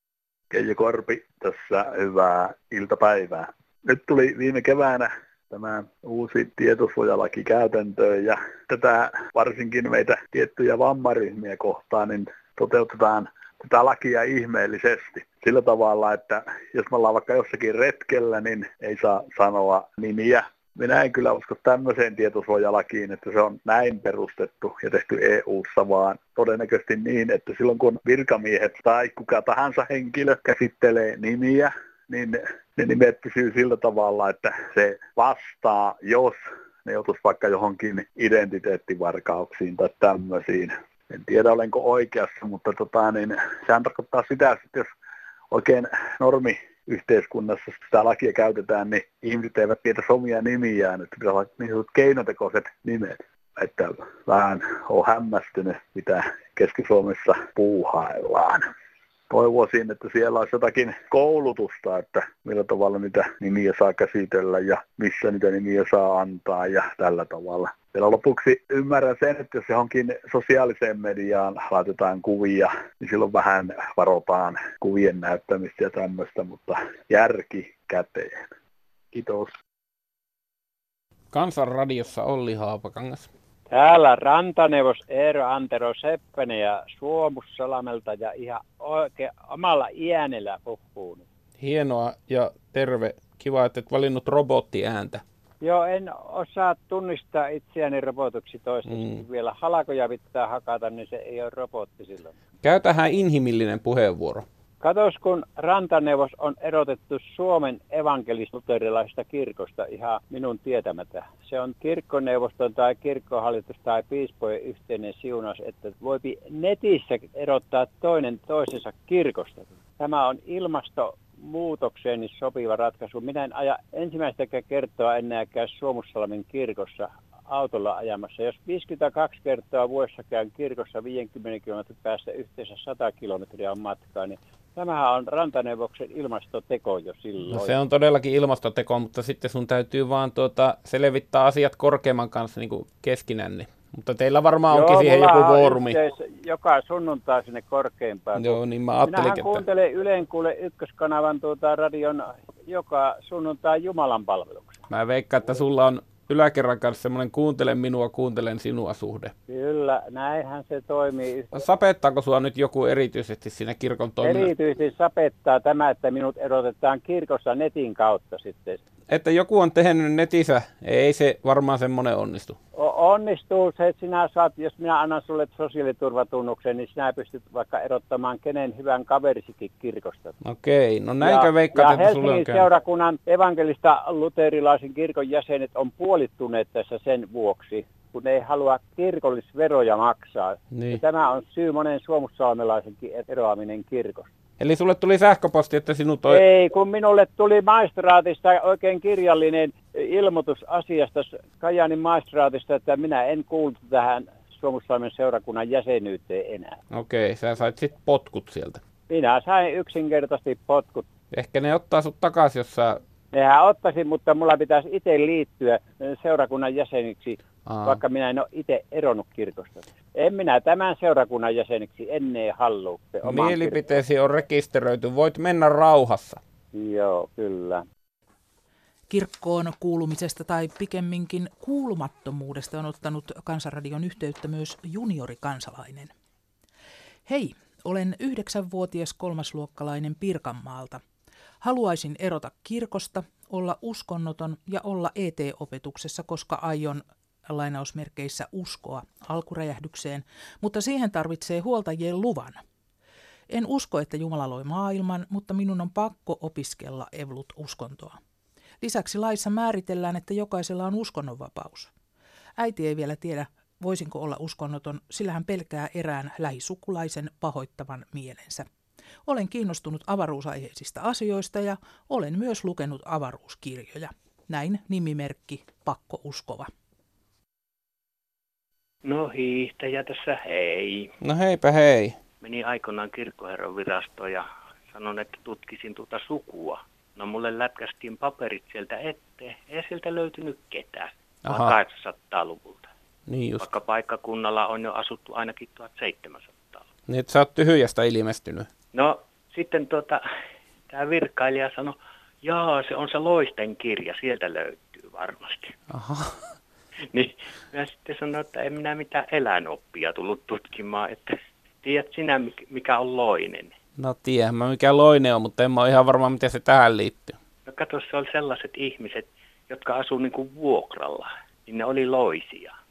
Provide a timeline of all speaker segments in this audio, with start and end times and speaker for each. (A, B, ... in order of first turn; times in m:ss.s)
0:00.5-0:44.9 A
0:45.5-0:58.7 A
0:59.3-1:18.3 A
1:19.1-1:19.5 A
1:21.3-1:23.3 B
1:23.7-1:31.2 C
1:31.6-1:35.2 B
1:35.6-1:42.4 C
1:38.9-1:39.2 B
1:42.6-1:44.4 B
1:44.8-2:17.7 C
2:17.5-2:26.0 B
2:24.7-2:34.8 C
2:28.4-2:29.6 B
2:34.9-2:39.3 B
2:39.5-2:41.5 C
2:41.5-2:44.5 B
2:44.2-2:48.8 C
2:49.1-2:52.6 B
2:52.7-3:00.4 C
3:00.4-3:02.7 B
3:01.2-3:14.3 C
3:10.7-3:11.0 B
3:14.6-3:16.4 B
3:16.3-3:26.8 C
3:26.9-3:28.8 B
3:29.1-3:31.1 C
3:31.3-3:33.0 B
3:33.3-3:44.0 C
3:37.6-3:38.0 B
3:43.2-3:46.4 B
3:46.7-3:47.8 C
3:49.1-3:56.1 D
3:57.3-4:01.0 D
4:01.6-4:12.6 D
4:13.5-4:18.2 D
4:18.8-4:21.9 D
4:22.6-4:28.7 D
4:29.3-4:36.7 D
4:39.0-4:41.1 E
4:41.2-4:42.2 B
4:42.4-4:52.9 E
4:51.5-4:51.8 B
4:53.3-4:53.7 B
4:53.6-4:56.9 E
4:57.1-4:58.7 B
4:58.9-5:00.2 E
5:00.9-5:05.8 E
5:05.9-5:06.6 B
5:07.1-5:13.8 E
5:14.0-5:17.4 B
5:17.7-5:22.8 E